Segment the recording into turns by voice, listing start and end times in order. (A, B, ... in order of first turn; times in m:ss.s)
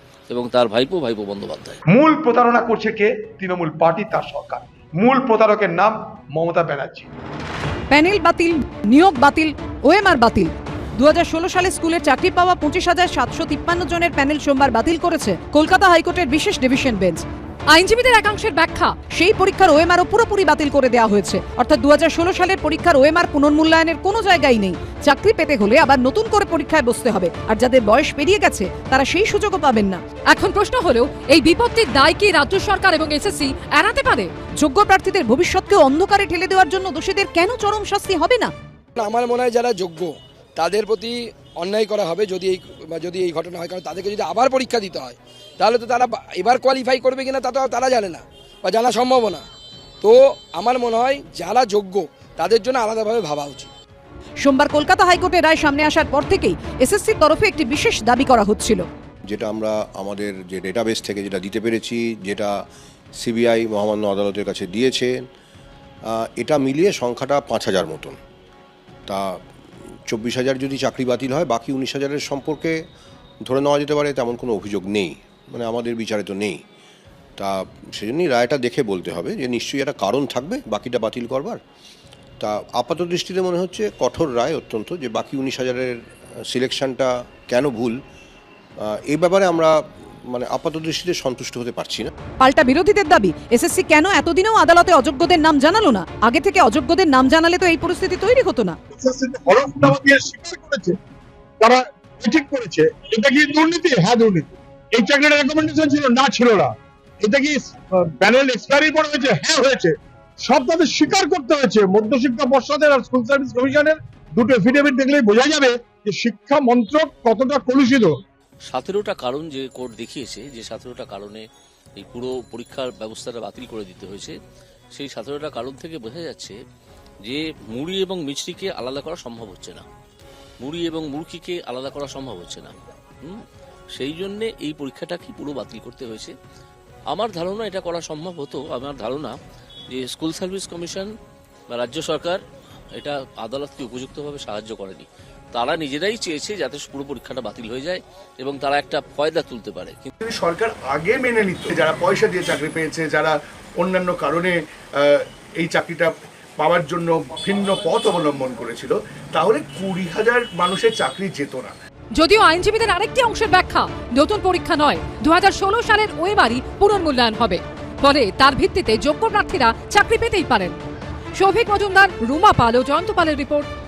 0:00.3-0:01.8 A
0:01.9-0:07.1 B
0:07.9-0:17.2 C
0:17.7-0:18.9 D
0:19.1-0:30.0 C
0:30.3-0:34.3 D
0:34.6-0:38.5 C
0:39.0-0:49.5 E
0:50.0-0:53.7 E
0:54.4-0:58.9 C
0:59.3-1:02.5 F
1:03.2-1:05.2 F
1:06.1-1:08.2 F
1:09.1-1:09.4 F
1:10.1-1:12.8 F
1:13.4-1:16.6 F
1:17.4-1:21.6 F
1:22.4-1:26.0 F
1:26.5-1:28.0 F
1:28.9-1:32.1 F
1:32.4-1:38.8 C
1:38.9-1:41.0 G
1:41.6-1:58.2 G
1:58.7-2:01.4 A
2:02.0-2:04.4 A
2:05.0-2:06.6 A
2:07.2-2:09.9 A
2:10.6-2:13.4 A
2:14.0-2:16.3 A
2:17.1-2:19.4 A
2:19.9-2:21.1 A
2:21.7-2:22.4 A
2:23.0-2:30.1 A
2:30.2-2:41.8 H
2:42.2-2:50.8 D
2:51.4-2:53.7 D